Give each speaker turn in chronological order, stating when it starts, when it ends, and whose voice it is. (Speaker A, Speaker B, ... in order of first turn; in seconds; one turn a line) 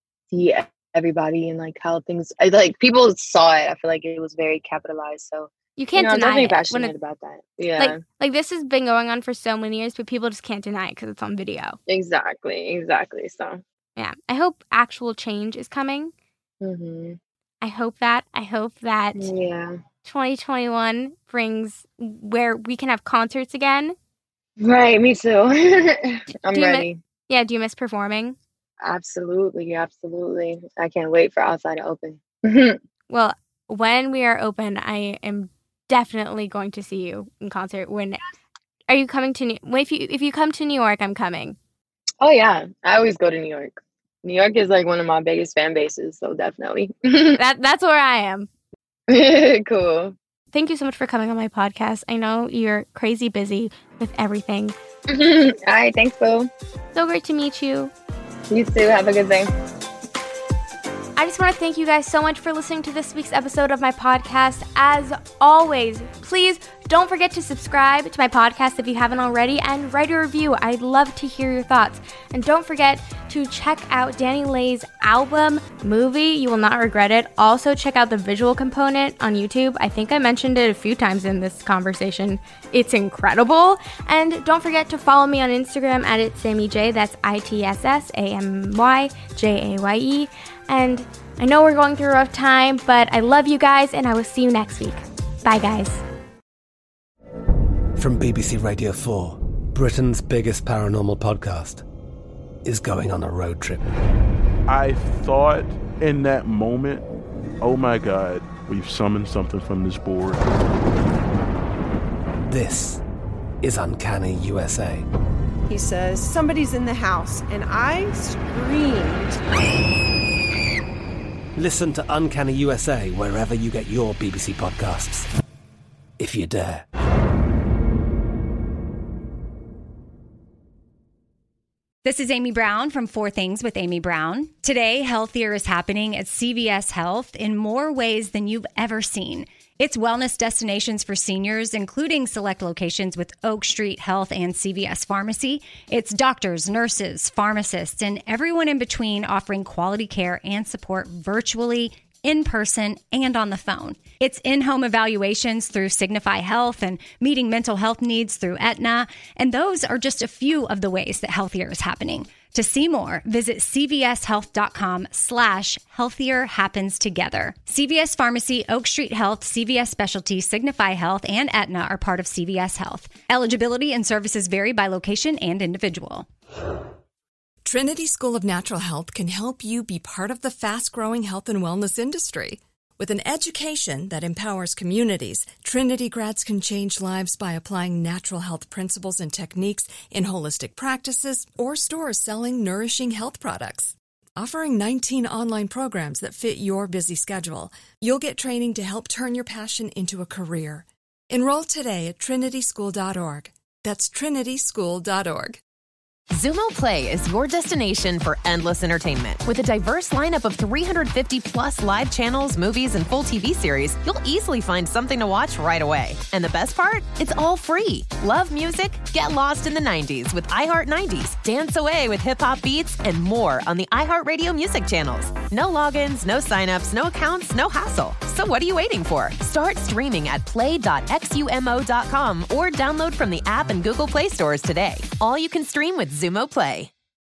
Speaker A: 0.3-8.0
Speaker B: 5.8-6.9
Speaker B: 7.8-11.8
Speaker A: 11.9-13.6
Speaker B: 13.9-16.1
Speaker A: 16.6-17.2
Speaker B: 17.6-19.3
Speaker A: 19.1-19.8
Speaker B: 20.0-23.9
Speaker A: 24.6-27.0
Speaker B: 26.5-28.4
Speaker A: 28.8-32.8
Speaker B: 33.1-38.2
Speaker B: 38.9-41.6
Speaker A: 42.2-47.4
Speaker B: 47.4-48.5
Speaker A: 49.1-50.1
Speaker B: 50.5-54.8
Speaker A: 55.1-56.5
Speaker B: 56.9-57.9
Speaker A: 58.5-59.5
Speaker B: 61.1-96.0
Speaker C: 98.0-101.8
Speaker C: 102.6-103.9
Speaker D: 104.7-107.0
Speaker D: 107.6-110.4
Speaker C: 112.5-113.0
Speaker C: 113.6-115.0
Speaker E: 115.7-119.4
Speaker C: 121.6-125.3
Speaker C: 126.2-126.8
Speaker F: 132.0-176.3
Speaker G: 177.6-205.6
Speaker H: 206.3-236.9